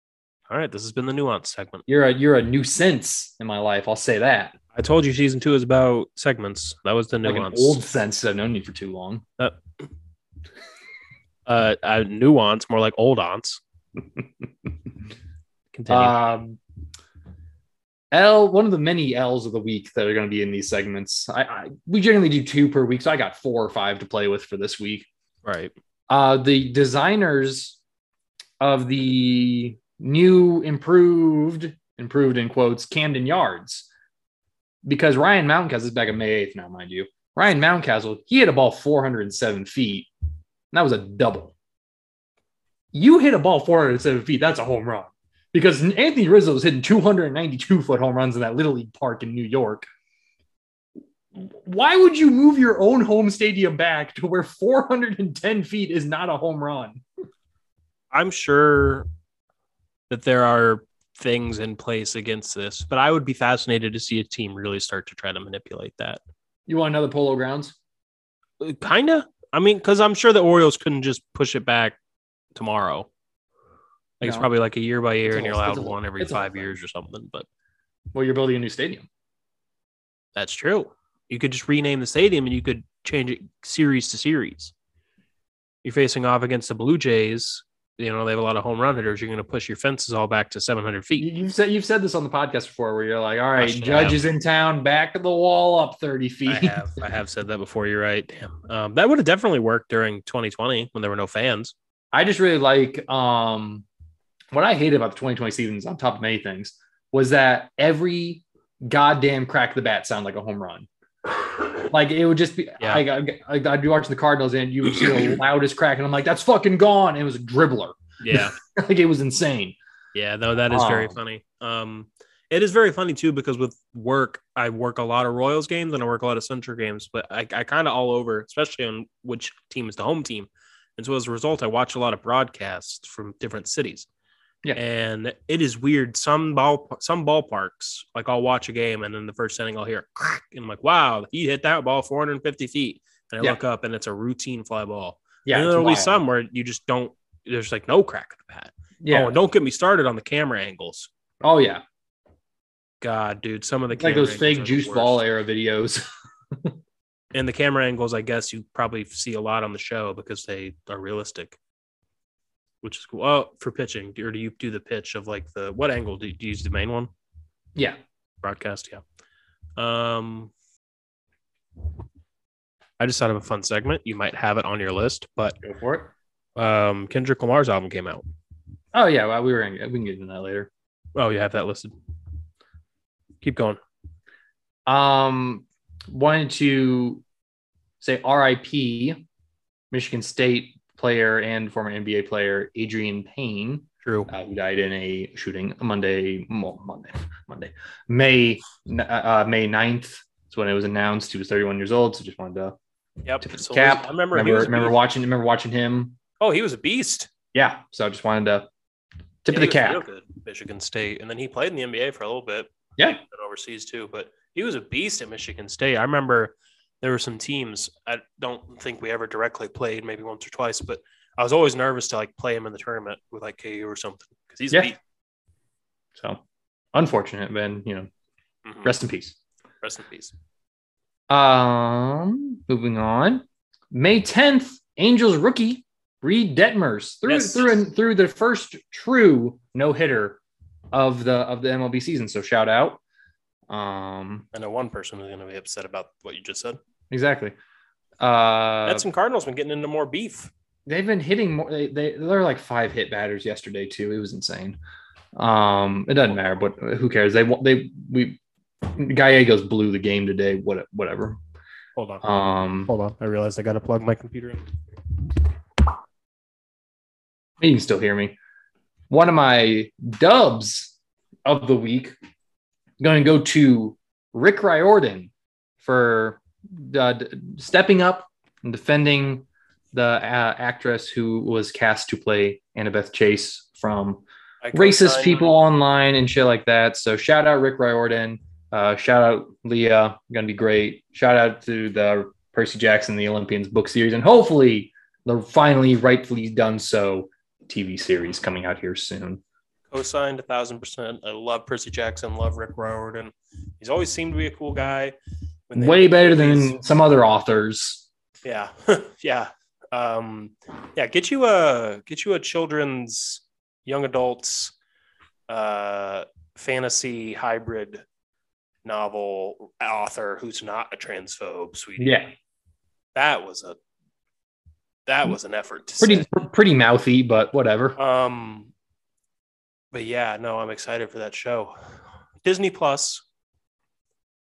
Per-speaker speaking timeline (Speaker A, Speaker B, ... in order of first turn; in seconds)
Speaker A: 0.5-1.8, 4.7-7.8, 11.4-13.6, 15.7-16.2, 25.4-25.7, 58.1-59.0, 60.1-66.2, 68.6-72.0, 72.5-73.1, 74.2-77.5, 80.3-84.7, 85.8-91.3, 93.6-94.2, 96.5-101.7, 118.2-118.5, 120.1-134.1, 134.8-151.1, 153.0-155.2, 157.3-161.6, 162.8-167.1, 168.4-169.0, 169.8-170.5, 173.0-175.6, 176.6-178.2, 181.1-181.9, 183.4-183.8, 194.0-194.3, 203.2-205.0, 206.4-207.3, 209.5-225.0, 228.6-228.9, 229.8-230.3, 237.2-237.7, 244.5-246.8, 248.8-250.5, 261.9-262.2, 262.9-264.7, 284.6-285.5, 299.9-305.1, 305.7-306.8, 308.4-314.7, 315.5-318.0, 318.8-322.2, 323.1-323.8, 325.1-326.2, 328.0-328.7, 329.9-331.7, 332.4-333.2
Speaker B: 1.9-4.5, 7.2-9.2, 15.9-16.6, 18.1-25.1, 26.1-27.8, 28.6-33.9, 34.8-40.1, 40.7-41.5, 42.9-49.9, 51.3-57.0, 66.7-67.7, 74.2-74.5, 75.3-76.7, 78.1-79.0, 91.2-96.8, 102.1-103.8, 104.5-110.9, 111.7-119.8, 120.7-121.2, 145.4-146.2, 149.0-149.3, 151.4-151.8, 153.9-156.0, 175.6-176.1, 178.9-180.7, 184.9-187.2, 188.0-189.2, 189.9-202.7, 203.4-206.2, 207.5-208.7, 209.4-210.0, 226.9-228.1, 228.8-229.3, 231.3-240.4, 240.9-243.0, 243.7-244.4, 247.1-247.5, 248.2-249.0, 250.9-254.8, 255.3-258.4, 258.9-261.4, 262.2-262.9, 267.6-268.4, 269.1-270.9, 271.4-272.1, 273.0-275.3, 275.8-284.2, 284.7-299.4, 305.7-308.1, 322.0-322.3, 326.0-328.0